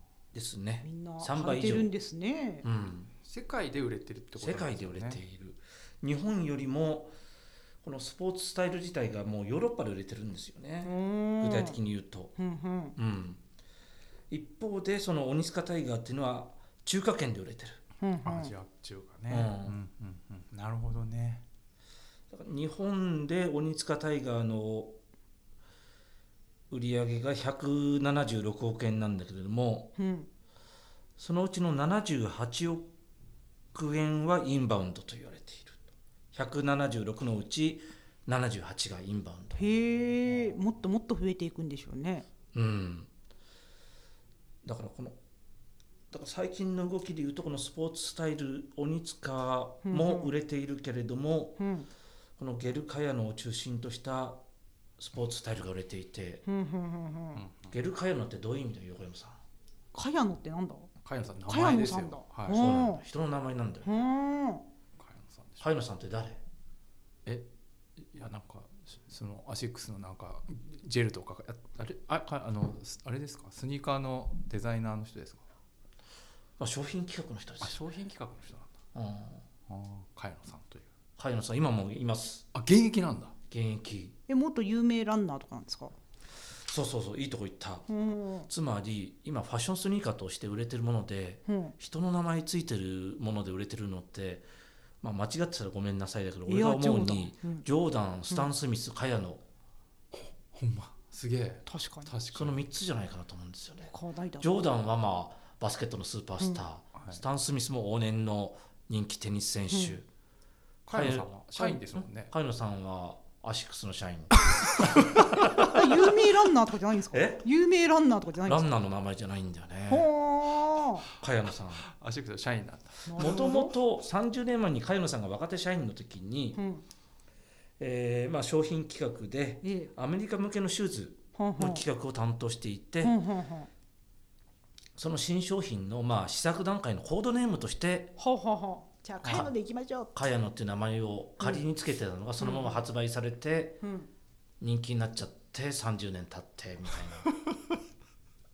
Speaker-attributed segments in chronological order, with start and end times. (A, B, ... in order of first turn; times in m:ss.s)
0:00.3-0:01.9 A
0:00.8-0:02.7 B
0:02.6-0:03.1 A
0:03.2-0:05.2 C
0:04.4-0:07.1 A
0:07.8-0:12.4 A
0:10.8-0:11.8 B
0:12.4-0:13.0 B
0:13.0-0:13.4 A
0:14.3-0:17.8 A
0:18.0-0:18.5 B
0:18.2-0:21.4 C
0:19.3-0:19.8 A
0:22.3-0:25.0 A
0:26.7-0:30.0 A
0:30.0-0:30.3 B
0:31.2-0:32.9 A
0:33.7-0:39.6 A
0:39.6-0:42.3 B
0:42.5-0:43.1 A
0:44.6-0:45.2 A
0:46.1-0:51.6 A
0:49.8-0:50.3 B
0:51.6-0:51.9 B
0:52.4-0:54.4 A
0:55.0-0:56.4 A
0:56.5-0:57.4 B
0:57.4-0:57.7 C
0:57.7-0:59.4 A
0:59.9-1:00.9 B
1:01.0-1:02.7 C
1:01.5-1:03.0 B
1:02.5-1:03.9 A
1:03.8-1:04.6 B
1:05.0-1:05.7 C
1:05.6-1:06.4 A
1:07.3-1:15.5 C
1:16.6-1:17.8 A
1:17.6-1:18.8 C
1:18.9-1:19.4 A
1:19.7-1:20.9 C
1:21.2-1:22.5 A
1:22.5-1:23.4 C
1:23.5-1:24.2 A
1:24.3-1:25.9 B
1:26.6-1:27.9 A
1:27.9-1:28.5 B
1:28.5-1:34.5 A
1:31.5-1:31.8 B
1:35.0-1:39.4 A
1:36.5-1:37.7 B
1:40.1-1:42.6 C
1:41.7-1:42.1 B
1:42.3-1:50.1 A
1:43.9-1:44.7 B
1:47.0-1:47.2 C
1:49.7-1:50.0 B
1:50.9-1:52.3 C
1:50.9-1:56.3 A
1:55.5-1:58.7 B
1:57.1-1:57.5 A
1:58.4-2:00.1 A
1:59.9-2:01.1 B
2:01.1-2:01.9 A
2:01.8-2:03.4 C
2:03.0-2:03.8 B
2:03.2-2:06.6 A
2:06.6-2:06.8 B
2:07.8-2:13.2 A
2:09.6-2:09.9 B
2:11.4-2:11.8 B
2:13.0-2:13.7 B
2:15.0-2:18.2 A
2:18.2-2:20.2 B
2:19.2-2:19.5 A
2:20.1-2:23.8 A
2:22.4-2:22.8 B
2:23.8-2:24.1 B
2:24.6-2:27.3 A